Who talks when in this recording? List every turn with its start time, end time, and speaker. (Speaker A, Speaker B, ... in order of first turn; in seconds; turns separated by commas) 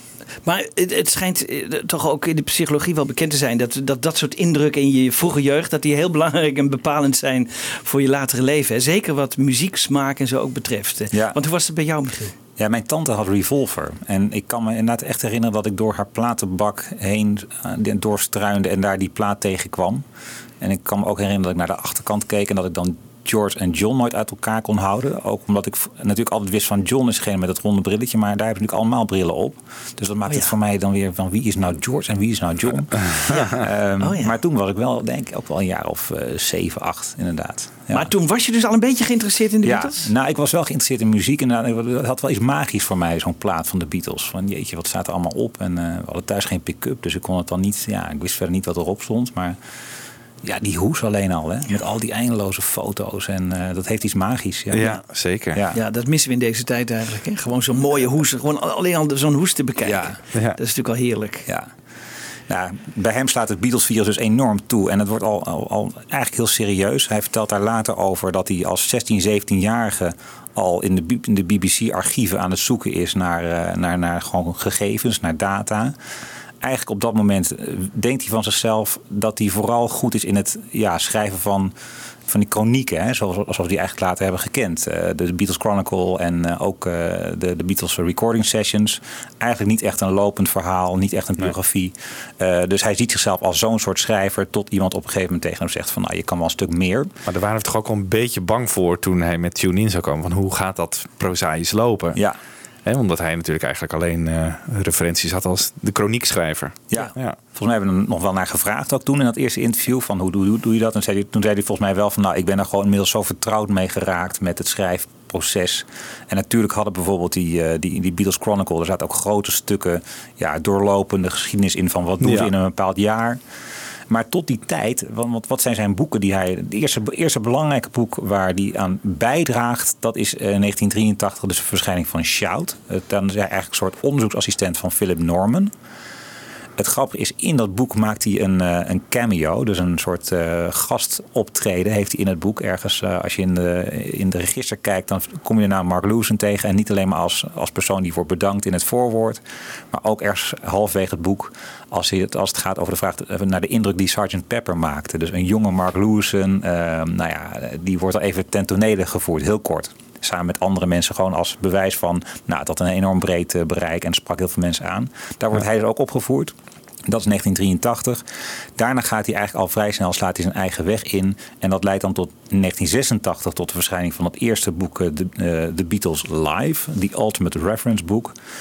Speaker A: 0.4-12.3, Speaker B: 11.1-11.4, Speaker B: 12.6-20.1, Speaker B: 20.6-38.1, Speaker A: 30.3-30.5, Speaker A: 33.3-34.4, Speaker A: 37.9-40.1, Speaker B: 39.6-49.6, Speaker B: 50.4-55.0, Speaker C: 54.7-55.6, Speaker B: 55.5-55.8, Speaker A: 55.7-61.5, Speaker B: 59.8-60.2, Speaker B: 62.5-76.0, Speaker B: 76.6-81.7, Speaker B: 82.3-97.1, Speaker C: 97.3-102.2, Speaker C: 102.8-107.4, Speaker B: 106.9-123.4, Speaker C: 122.2-122.5, Speaker B: 124.1-135.7, Speaker B: 136.8-166.5, Speaker B: 167.1-168.2, Speaker B: 168.8-178.4